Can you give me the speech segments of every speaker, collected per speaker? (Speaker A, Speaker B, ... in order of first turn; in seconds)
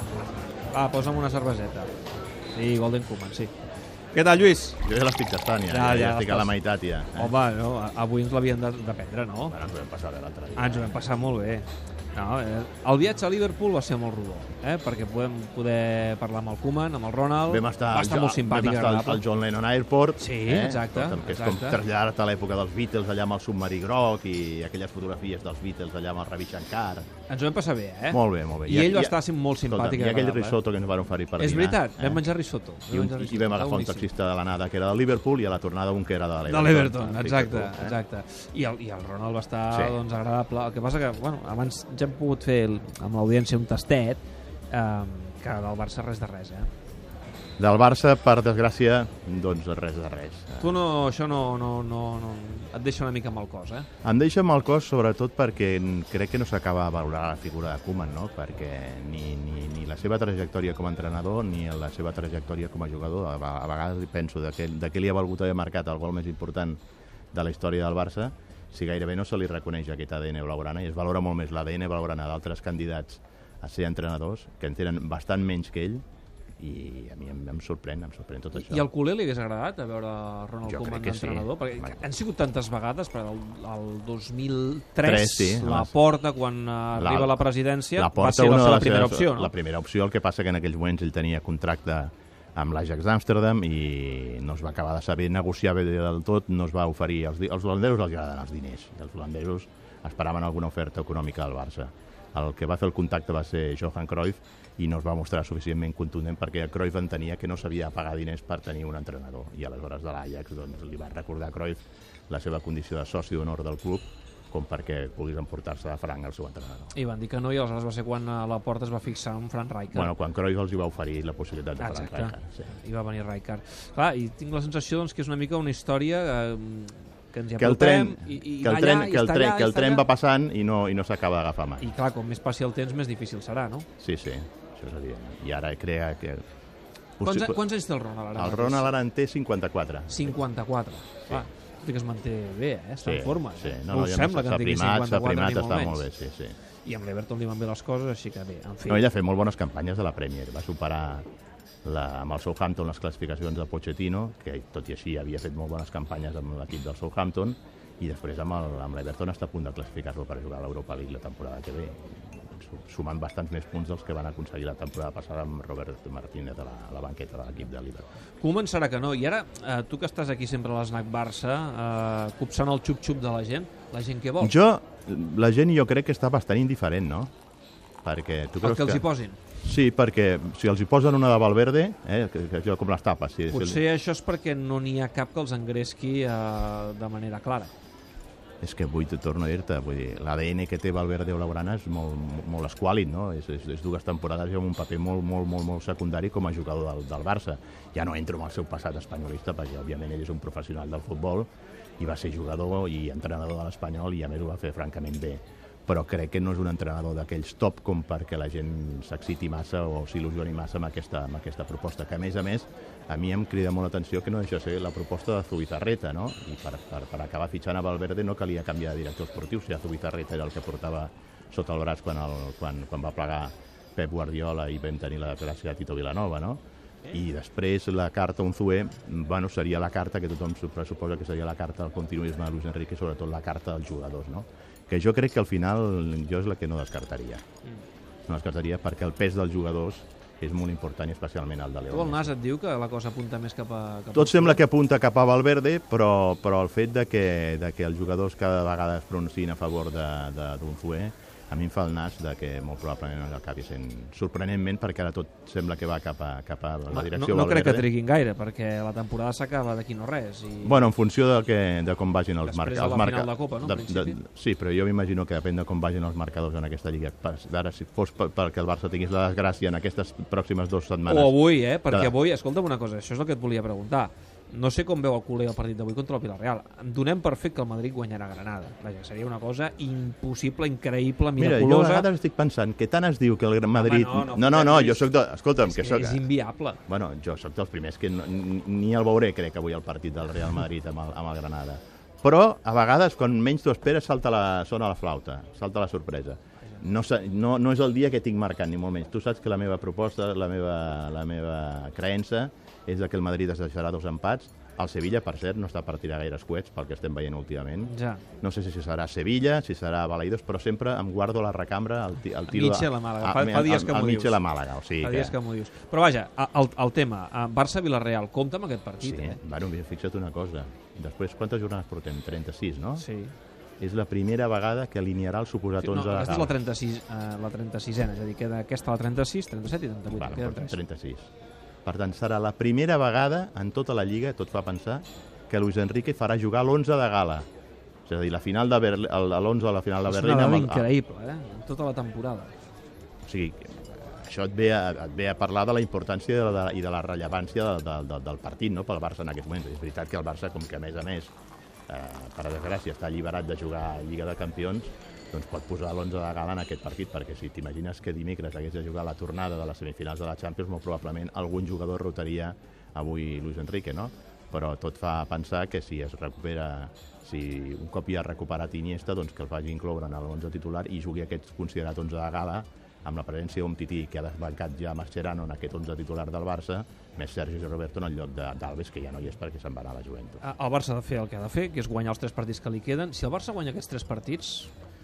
Speaker A: 0.7-1.9, 2.5-3.5, 4.1-4.8, 5.7-6.5, 7.2-9.5, 10.6-19.2, 20.2-21.8, 27.3-30.6, 31.4-34.1, 36.4-46.7, 50.6-53.9, 78.5-89.5, 116.9-120.1, 121.8-130.1, 131.8-133.9, 137.2-138.9, 140.1-146.1, 146.8-149.1, 168.4-174.6, 178.6-179.4, 183.5-187.7, 241.9-244.6, 256.9-260.9, 262.4-264.2, 271.1-282.1, 283.7-285.1, 285.6-286.8, 307.9-308.2, 312.5-314.4, 315.0-319.4, 323.0-323.3, 325.8-330.8, 340.1-342.5, 380.4-384.7
Speaker B: 4.8-7.3, 9.4-11.2, 17.5-27.1, 28.1-32.2, 32.9-38.0, 39.7-40.0, 47.6-50.8, 54.0-66.8, 67.3-76.0, 76.6-78.9, 80.6-82.0, 85.0-85.9, 87.0-116.9, 119.9-122.7, 127.6-131.8, 134.0-136.4, 137.2-137.6, 138.3-140.4, 143.0-146.6, 148.9-151.2, 151.8-168.1, 174.4-177.3, 178.0-179.1, 179.6-183.8, 188.6-201.5, 202.0-237.4, 238.3-242.3, 244.1-257.9, 260.6-272.1, 281.4-286.2, 286.9-315.4, 319.0-323.0, 323.8-326.6, 330.1-331.3, 331.8-337.4, 338.1-340.9, 343.2-351.3, 351.9-380.4